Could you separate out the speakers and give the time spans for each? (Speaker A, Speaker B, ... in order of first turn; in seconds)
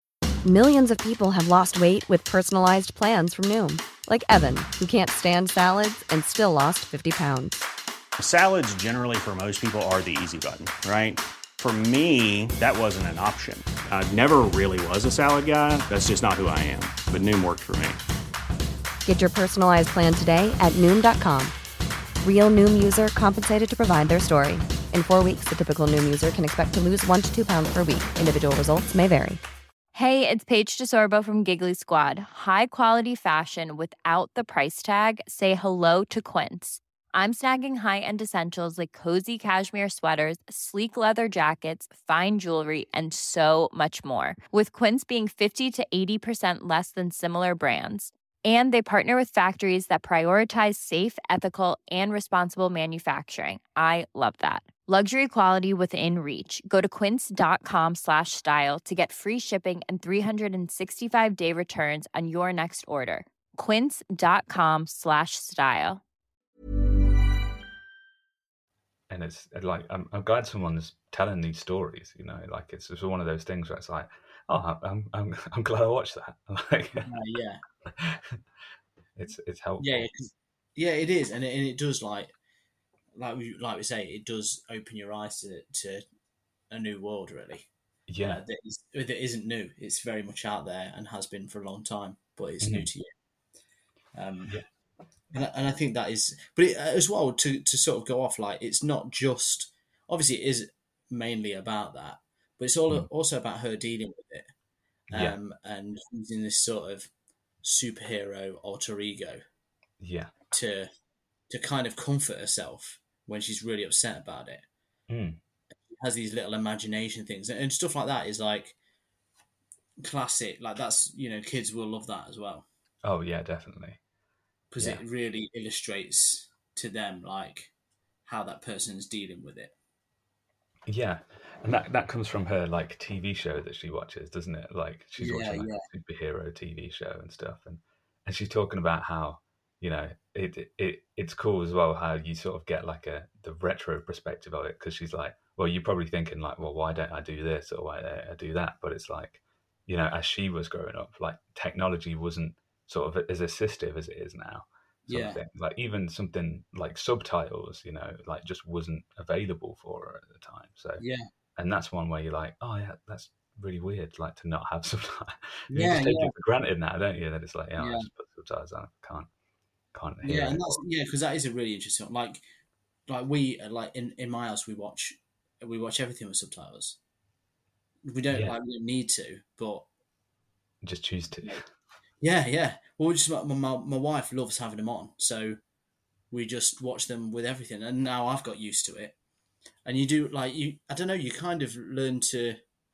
Speaker A: 0.4-7.6, 19.0-21.5, 22.2-29.4
Speaker B: 8.2-18.0
Speaker C: 29.9-66.0
Speaker D: 69.1-77.1, 78.0-78.4, 79.2-80.1, 88.1-88.4, 92.6-92.9, 105.1-105.4, 110.0-110.3, 115.1-115.4, 123.0-124.0, 130.9-161.0, 161.6-169.3, 169.9-170.7, 178.3-178.6, 180.8-181.7
Speaker E: 77.0-77.6, 79.8-82.3, 83.2-86.0, 86.7-87.7, 88.2-93.1, 94.1-94.6, 95.3-104.5, 105.1-107.1, 107.6-109.4, 110.5-110.9, 111.5-114.6, 115.9-118.8, 120.0-122.7, 124.7-127.7, 128.2-129.7, 135.2-135.8, 155.1-155.4, 161.0-161.2, 165.7-166.3, 167.8-168.1, 170.2-172.4, 173.1-177.0, 178.0-179.9, 182.2-185.6, 186.3-189.2, 189.9-192.6